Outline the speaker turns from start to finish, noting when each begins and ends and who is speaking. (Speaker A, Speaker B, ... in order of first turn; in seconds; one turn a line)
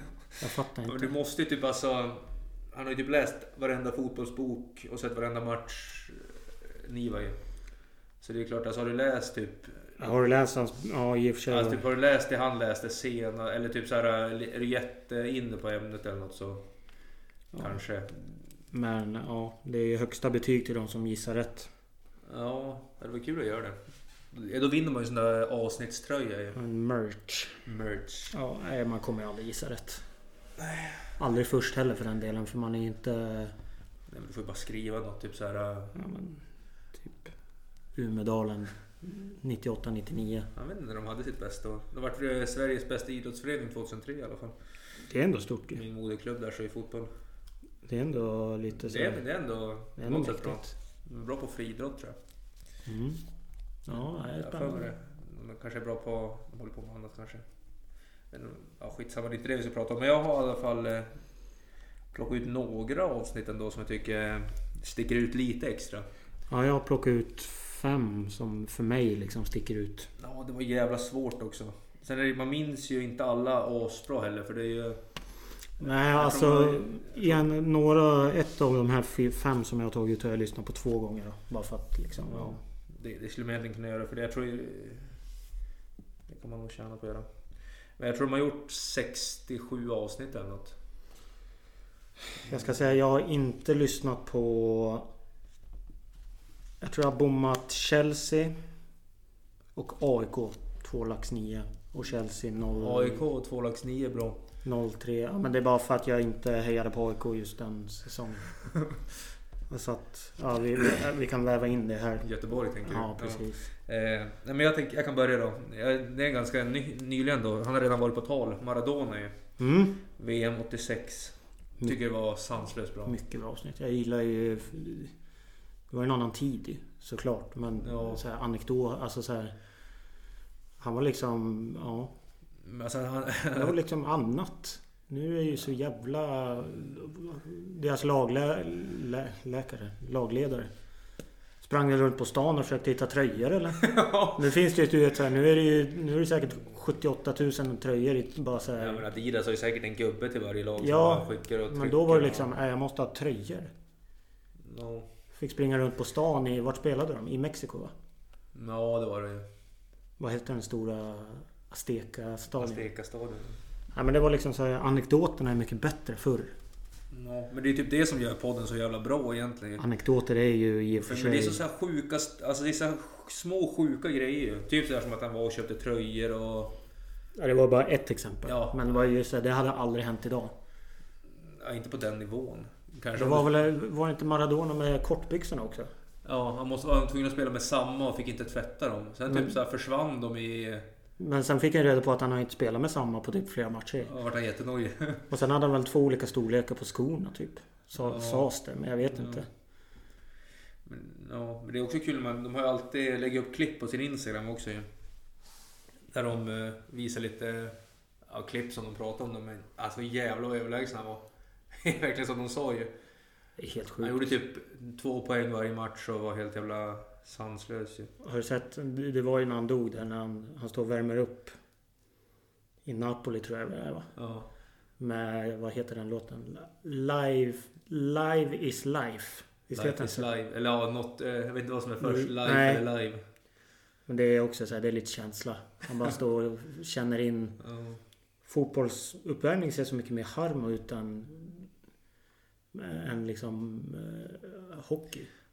Speaker A: 0.4-1.1
Speaker B: 0.9-7.4
Speaker B: 8.2-9.9
Speaker A: 10.0-11.8
Speaker B: 11.5-16.6
Speaker B: 17.6-18.2
Speaker A: 18.7-21.7
Speaker B: 22.3-23.8
Speaker B: 24.3-26.6
Speaker A: 26.6-27.6
Speaker B: 27.7-28.4
Speaker A: 28.3-30.1
Speaker B: 30.6-31.1
Speaker A: 31.2-33.5
Speaker B: 34.1-36.0
Speaker A: 36.0-36.4
Speaker A: 37.0-37.3
Speaker A: 38.0-40.5
Speaker B: 40.5-44.6
Speaker A: 45.0-45.8
Speaker B: 45.7-47.1
Speaker A: 47.9-49.2
Speaker B: 48.7-52.2
Speaker A: 50.0-50.7
Speaker A: 52.9-53.2
Speaker A: 53.9-54.9
Speaker B: 54.0-57.5
Speaker B: 58.3-61.2
Speaker B: 62.1-66.1
Speaker A: 66.5-70.1
Speaker B: 70.2-75.0
Speaker A: 75.8-82.6
Speaker B: 75.9-77.5
Speaker B: 82.3-85.2
Speaker B: 86.3-87.3
Speaker B: 88.0-90.8
Speaker A: 92.4-95.1
Speaker A: 96.8-98.6
Speaker A: 99.8-103.2
Speaker B: 102.8-104.4
Speaker A: 104.6-108.5
Speaker A: 109.7-112.3
Speaker B: 112.2-119.4
Speaker A: 112.8-113.7
Speaker A: 119.6-120.0
Speaker B: 120.2-123.2
Speaker A: 123.1-125.1
Speaker A: 125.9-129.6
Speaker B: 127.8-128.2
Speaker A: 130.8-132.1
Speaker B: 132.6-133.8
Speaker A: 133.6-140.7
Speaker A: 141.6-149.1
Speaker B: 143.8-144.4
Speaker B: 148.8-152.5
Speaker A: 150.8-153.7
Speaker B: 154.7-155.1
Speaker A: 155.3-157.9
Speaker B: 158.6-159.5
Speaker A: 160.2-162.8
Speaker B: 162.6-163.6
Speaker A: 163.9-166.6
Speaker B: 167.1-169.8
Speaker A: 169.8-171.6
Speaker B: 171.0-176.8
Speaker A: 177.4-180.5
Speaker B: 178.5-178.9
Speaker B: 181.4-183.5
Speaker A: 183.2-185.9
Speaker B: 186.2-190.9
Speaker A: 189.3-189.5
Speaker A: 191.2-194.1
Speaker B: 194.0-195.3
Speaker A: 195.3-199.5
Speaker B: 198.0-198.5
Speaker B: 199.1-199.4
Speaker B: 200.8-204.9
Speaker B: 206.1-212.9
Speaker A: 213.6-214.3
Speaker B: 214.0-218.1
Speaker A: 218.2-221.5
Speaker A: 222.8-224.1
Speaker B: 224.2-224.5
Speaker A: 225.0-230.3
Speaker B: 229.7-233.2
Speaker A: 232.0-232.8
Speaker A: 234.1-237.6
Speaker B: 237.6-238.0
Speaker A: 238.4-241.7
Speaker A: 242.7-245.3